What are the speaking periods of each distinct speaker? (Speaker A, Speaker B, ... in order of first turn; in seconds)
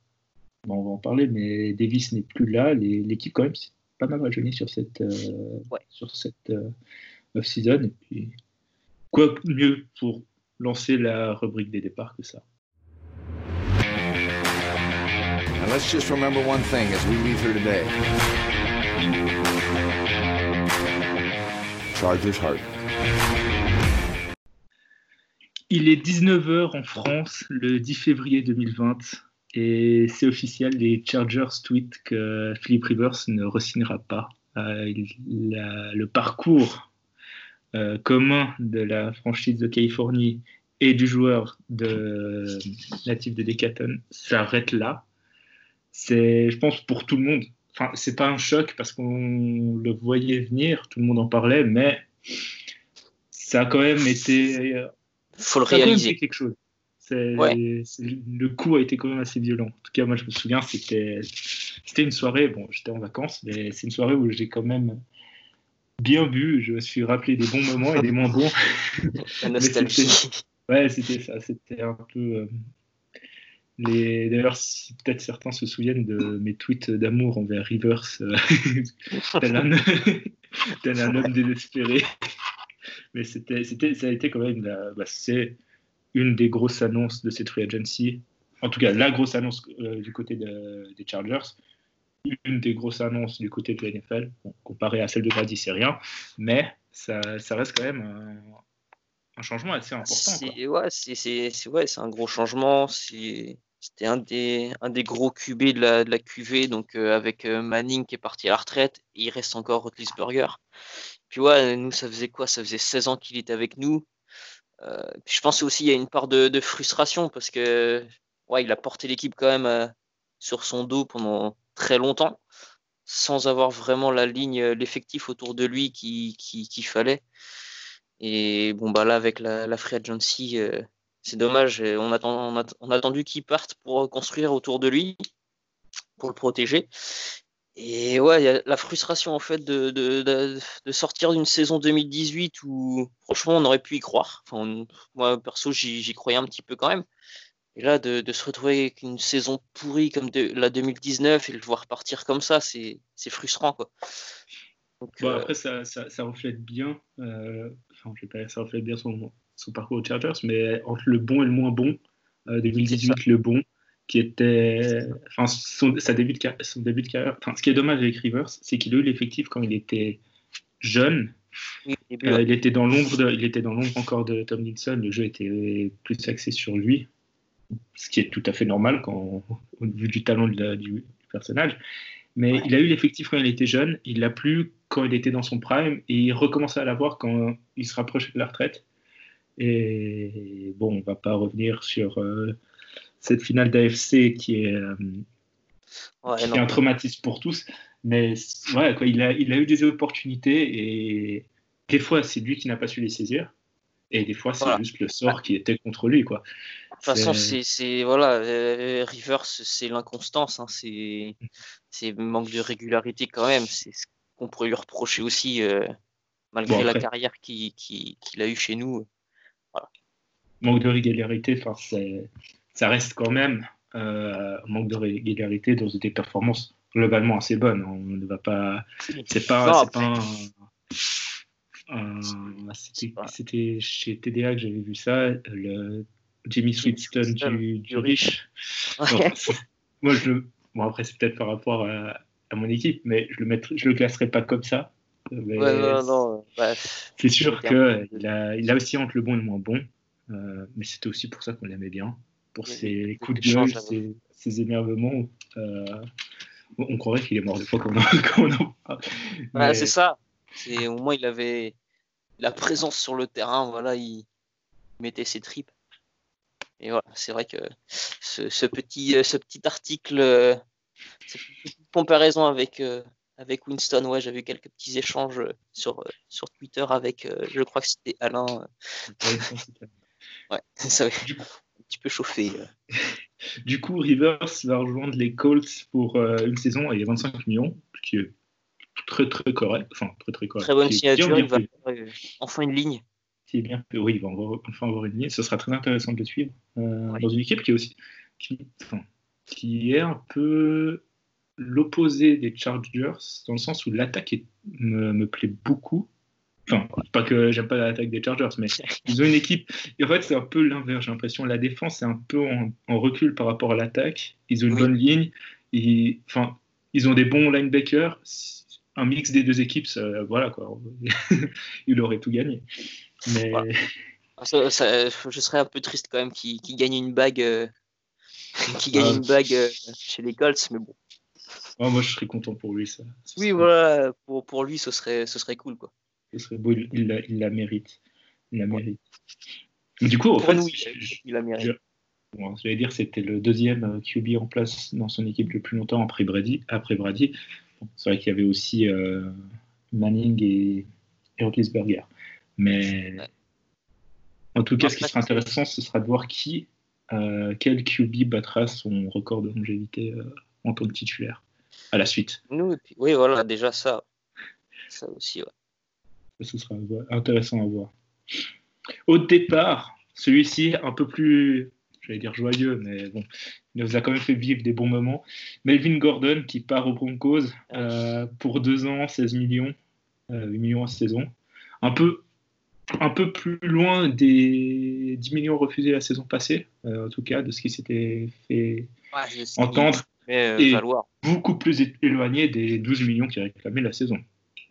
Speaker A: 0.6-6.7, 7.3-8.3, 9.1-12.4, 25.7-36.9, 37.7-45.0, 45.9-52.1, 53.3-54.9, 55.7-65.0, 66.0-72.5, 73.8-82.1, 83.1-85.6, 86.1-91.6, 92.2-98.6, 99.4-100.6, 155.2-162.0, 162.5-170.2, 170.8-171.3, 172.2-177.1, 177.9-181.8, 182.3-188.8, 189.6-192.6, 193.2-195.2, 196.3-203.5, 204.1-206.4, 207.0-207.6, 216.7-217.1, 220.6-230.5, 231.9-238.5, 239.1-246.1, 247.2-256.0, 256.8-259.9, 279.2-279.9, 283.6-288.3, 289.0-291.7, 293.5-301.0, 301.6-306.1, 306.7-322.6, 323.2-323.8, 328.9-329.2, 331.8-333.7, 336.3-338.0, 338.5-339.0, 340.0-341.8, 342.3-349.3, 349.9-353.2, 354.5-362.4, 366.4-367.9, 369.1-379.7, 380.3-381.3, 381.8-382.2, 383.0-388.9, 389.6-394.2
Speaker B: 15.6-18.0, 21.9-22.7
Speaker C: 55.4-56.1, 69.2-70.4, 100.0-110.6, 111.3-114.1, 114.8-122.4, 123.0-127.2, 128.2-135.2, 136.2-147.0, 147.7-153.9, 155.0-155.5, 162.9-163.2, 171.9-172.4, 196.2-196.8, 204.6-205.4, 207.0-211.3, 211.9-215.9, 216.5-219.1, 229.1-230.1, 233.0-233.3, 236.8-238.3, 239.0-239.5, 245.6-248.2, 252.7-253.9, 259.5-261.7, 262.4-264.2, 265.0-265.7, 266.8-270.6, 271.3-278.7, 280.5-281.2, 281.8-282.7, 290.6-293.0, 324.4-327.7, 328.6-330.9, 333.4-335.9, 340.4-341.7, 354.8-355.4, 362.5-364.0, 364.9-365.5, 389.1-391.1